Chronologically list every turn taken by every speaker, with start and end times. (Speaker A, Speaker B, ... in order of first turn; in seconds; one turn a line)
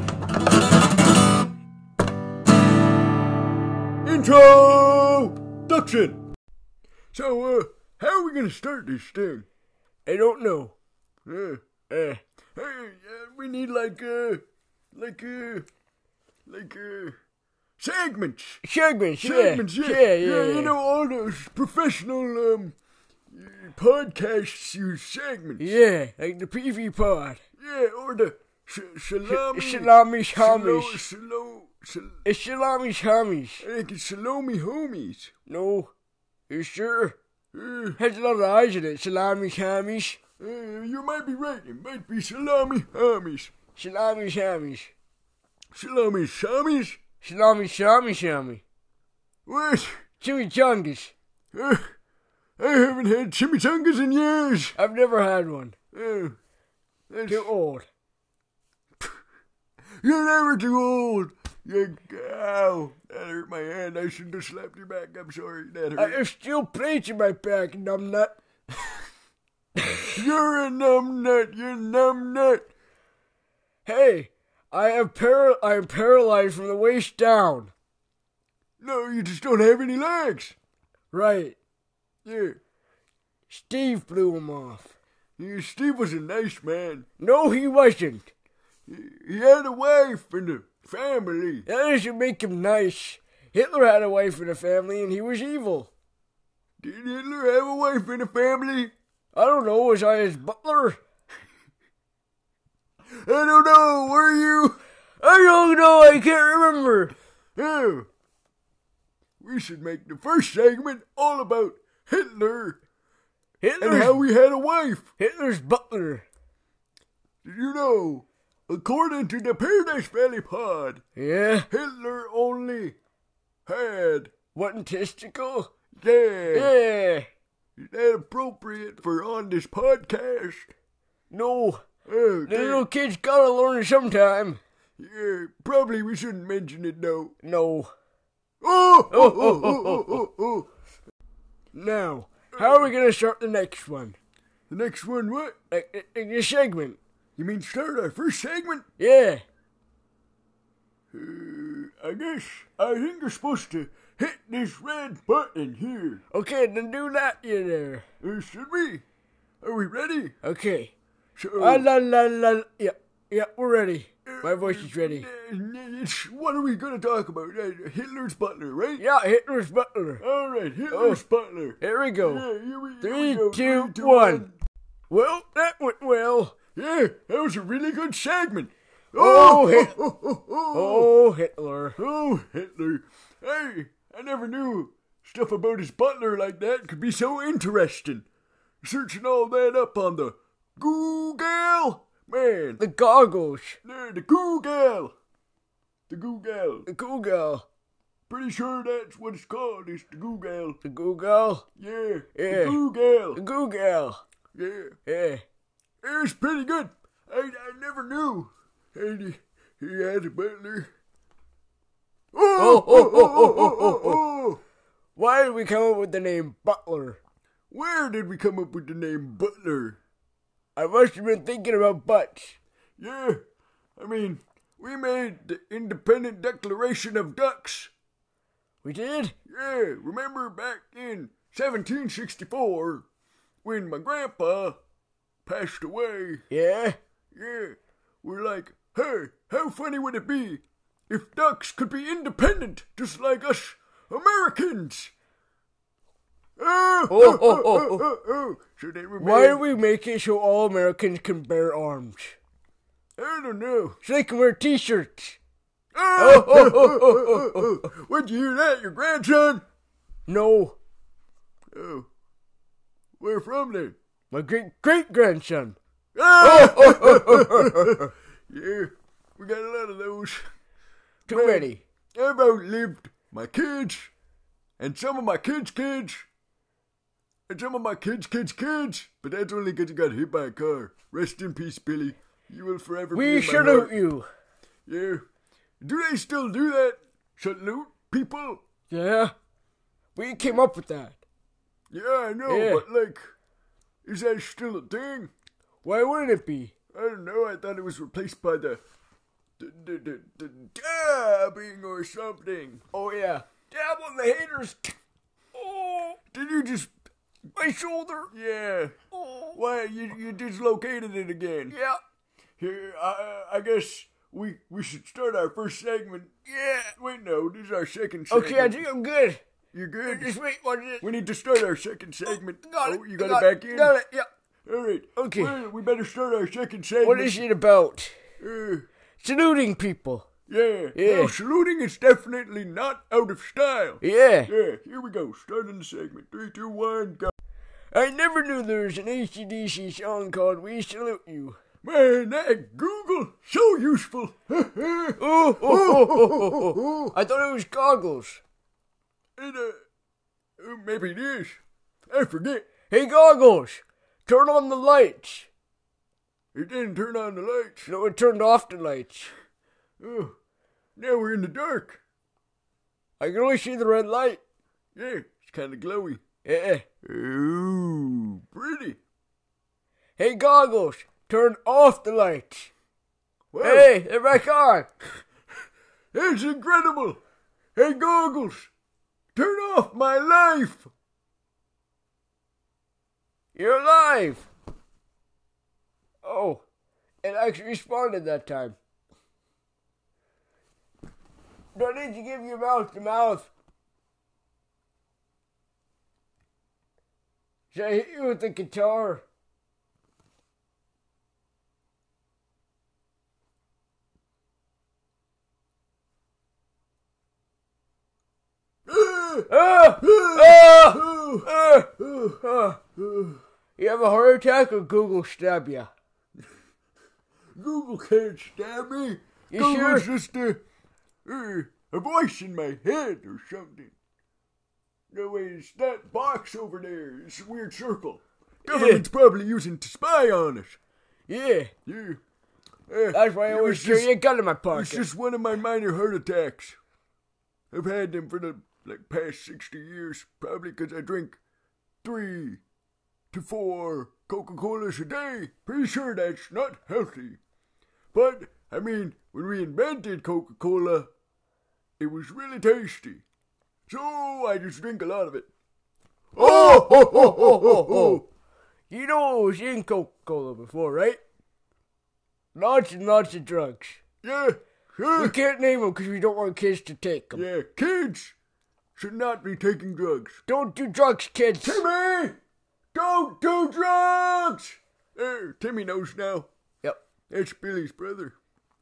Speaker A: 4.0-6.2
Speaker A: 7.1-9.5
Speaker B: 10.1-10.8
Speaker A: 11.3-11.6
Speaker B: 11.9-12.2
Speaker A: 12.6-15.7
Speaker A: 16.5-17.2
Speaker A: 17.8-18.6
Speaker B: 18.6-20.8
Speaker A: 19.2-22.8
Speaker A: 23.3-25.7
Speaker B: 25.6-27.4
Speaker A: 27.6-32.2
Speaker B: 29.3-31.0
Speaker B: 32.2-33.6
Speaker A: 33.6-35.3
Speaker B: 35.5-35.9
Speaker B: 36.5-37.2
Speaker A: 37.5-38.0
Speaker B: 38.0-40.2
Speaker A: 40.4-43.5
Speaker B: 43.8-44.9
Speaker A: 45.7-47.0
Speaker B: 47.2-48.6
Speaker A: 49.5-50.0
Speaker B: 50.2-51.1
Speaker A: 51.5-51.9
Speaker A: 52.6-54.8
Speaker B: 54.8-55.8
Speaker A: 55.9-56.4
Speaker A: 57.1-57.5
Speaker B: 57.3-57.9
Speaker A: 60.0-66.2
Speaker B: 66.0-68.4
Speaker A: 70.2-72.7
Speaker B: 73.9-77.7
Speaker A: 78.8-80.6
Speaker B: 81.1-81.6
Speaker A: 82.2-82.6
Speaker B: 83.5-84.9
Speaker A: 85.4-87.1
Speaker B: 87.2-88.3
Speaker A: 88.9-91.7
Speaker B: 91.7-95.9
Speaker A: 96.8-98.9
Speaker B: 99.3-101.0
Speaker A: 103.1-104.8
Speaker B: 105.2-107.1
Speaker A: 107.6-108.1
Speaker A: 109.4-112.8
Speaker B: 113.6-114.2
Speaker A: 113.8-115.1
Speaker B: 115.2-116.3
Speaker A: 117.4-121.0
Speaker B: 121.2-121.7
Speaker A: 121.7-123.0
Speaker A: 123.7-124.3
Speaker B: 124.5-125.7
Speaker A: 126.0-126.7
Speaker B: 126.5-127.3
Speaker A: 127.8-130.7
Speaker B: 131.3-131.8
Speaker A: 132.1-132.9
Speaker B: 132.5-134.6
Speaker A: 135.0-137.3
Speaker B: 137.4-137.9
Speaker A: 138.6-140.7
Speaker B: 139.1-140.2
Speaker B: 141.7-144.2
Speaker A: 142.5-142.9
Speaker A: 144.7-145.6
Speaker B: 145.7-147.0
Speaker A: 147.4-148.9
Speaker B: 149.0-149.4
Speaker A: 151.1-156.2
Speaker B: 156.3-158.1
Speaker A: 158.2-159.0
Speaker A: 159.6-160.4
Speaker B: 160.4-160.9
Speaker A: 161.4-161.9
Speaker B: 161.6-165.3
Speaker A: 164.2-169.1
Speaker B: 169.0-170.2
Speaker A: 170.2-174.6
Speaker B: 170.9-171.2
Speaker B: 171.8-172.5
Speaker B: 173.0-174.5
Speaker B: 175.1-176.6
Speaker A: 176.8-181.1
Speaker B: 179.1-179.9
Speaker B: 180.7-182.0
Speaker A: 182.0-188.3
Speaker A: 188.8-192.8
Speaker B: 192.8-193.8
Speaker A: 193.8-195.1
Speaker A: 196.1-196.9
Speaker B: 196.9-197.7
Speaker A: 198.3-200.8
Speaker B: 200.8-201.7
Speaker A: 201.8-203.4
Speaker B: 202.3-202.8
Speaker B: 203.3-204.2
Speaker A: 204.5-205.0
Speaker B: 205.1-205.4
Speaker A: 206.0-210.9
Speaker A: 212.3-214.6
Speaker B: 212.6-214.2
Speaker B: 215.2-217.2
Speaker A: 217.7-220.0
Speaker B: 220.8-222.6
Speaker A: 223.0-223.4
Speaker A: 224.0-227.9
Speaker B: 228.8-229.3
Speaker A: 229.5-233.1
Speaker A: 233.6-234.8
Speaker A: 235.5-236.5
Speaker B: 236.5-237.0
Speaker A: 237.3-245.1
Speaker A: 246.6-249.7
Speaker B: 247.1-248.1
Speaker B: 249.2-252.4
Speaker A: 253.2-254.0
Speaker B: 254.0-255.4
Speaker A: 255.9-259.6
Speaker B: 256.2-257.7
Speaker B: 260.3-260.8
Speaker A: 261.7-262.1
Speaker A: 263.2-264.0
Speaker B: 264.3-265.8
Speaker A: 266.1-270.4
Speaker B: 266.4-268.1
Speaker B: 271.3-271.8
Speaker A: 271.3-274.1
Speaker A: 274.8-276.3
Speaker A: 277.5-284.0
Speaker B: 283.1-284.3
Speaker A: 284.9-285.2
Speaker A: 285.8-288.6
Speaker B: 288.9-289.3
Speaker B: 290.1-291.2
Speaker A: 290.4-290.6
Speaker A: 291.9-293.3
Speaker B: 292.5-292.9
Speaker A: 294.1-295.3
Speaker B: 295.8-296.7
Speaker A: 296.9-298.8
Speaker A: 299.6-302.8
Speaker B: 302.9-304.9
Speaker B: 305.6-306.2
Speaker A: 306.3-306.9
Speaker B: 307.6-308.3
Speaker A: 308.3-309.0
Speaker B: 309.2-309.5
Speaker A: 309.5-311.8
Speaker B: 311.7-312.0
Speaker A: 312.6-316.3
Speaker B: 316.5-316.9
Speaker A: 317.0-318.8
Speaker B: 318.3-319.4
Speaker A: 319.7-320.4
Speaker B: 320.1-321.0
Speaker A: 321.0-323.9
Speaker B: 322.3-324.3
Speaker A: 324.7-327.5
Speaker B: 325.2-325.6
Speaker B: 327.0-328.2
Speaker A: 328.4-328.9
Speaker B: 329.2-330.3
Speaker A: 330.5-337.3
Speaker B: 330.9-331.3
Speaker B: 334.0-334.5
Speaker B: 337.9-341.6
Speaker A: 341.8-347.1
Speaker B: 345.2-348.4
Speaker A: 349.4-349.8
Speaker A: 350.6-352.7
Speaker B: 352.9-355.5
Speaker A: 356.5-357.9
Speaker B: 357.9-359.3
Speaker A: 360.0-360.4
Speaker A: 361.0-362.0
Speaker B: 363.2-364.4
Speaker A: 364.9-366.2
Speaker B: 366.4-366.9
Speaker A: 367.0-369.0
Speaker B: 370.2-372.7
Speaker A: 373.5-373.9
Speaker B: 373.6-374.9
Speaker A: 376.1-377.2
Speaker A: 377.8-378.7
Speaker A: 379.4-380.9
Speaker B: 383.6-384.5
Speaker B: 386.2-386.6
Speaker B: 387.2-388.8
Speaker B: 391.8-393.5
Speaker B: 397.7-399.2
Speaker A: 408.9-412.4
Speaker B: 409.5-411.9
Speaker B: 412.4-412.8
Speaker A: 413.0-413.4
Speaker B: 413.8-415.9
Speaker A: 417.6-420.6
Speaker B: 419.5-420.1
Speaker A: 421.2-423.9
Speaker A: 425.1-430.8
Speaker B: 428.7-429.1
Speaker B: 431.3-431.7
Speaker A: 431.9-432.2
Speaker A: 432.9-434.1
Speaker B: 433.1-435.1
Speaker A: 434.7-436.8
Speaker A: 437.7-441.4
Speaker A: 442.0-442.6
Speaker A: 443.3-447.4
Speaker A: 448.1-451.1
Speaker A: 452.0-453.2
Speaker A: 453.9-455.5
Speaker A: 456.3-458.2
Speaker B: 456.4-458.2
Speaker B: 458.9-461.2
Speaker B: 462.6-464.0
Speaker A: 464.2-465.4
Speaker B: 465.1-467.4
Speaker A: 467.3-468.4
Speaker A: 469.0-470.4
Speaker B: 470.5-471.8
Speaker A: 471.6-472.4
Speaker A: 472.9-476.5
Speaker A: 477.3-478.4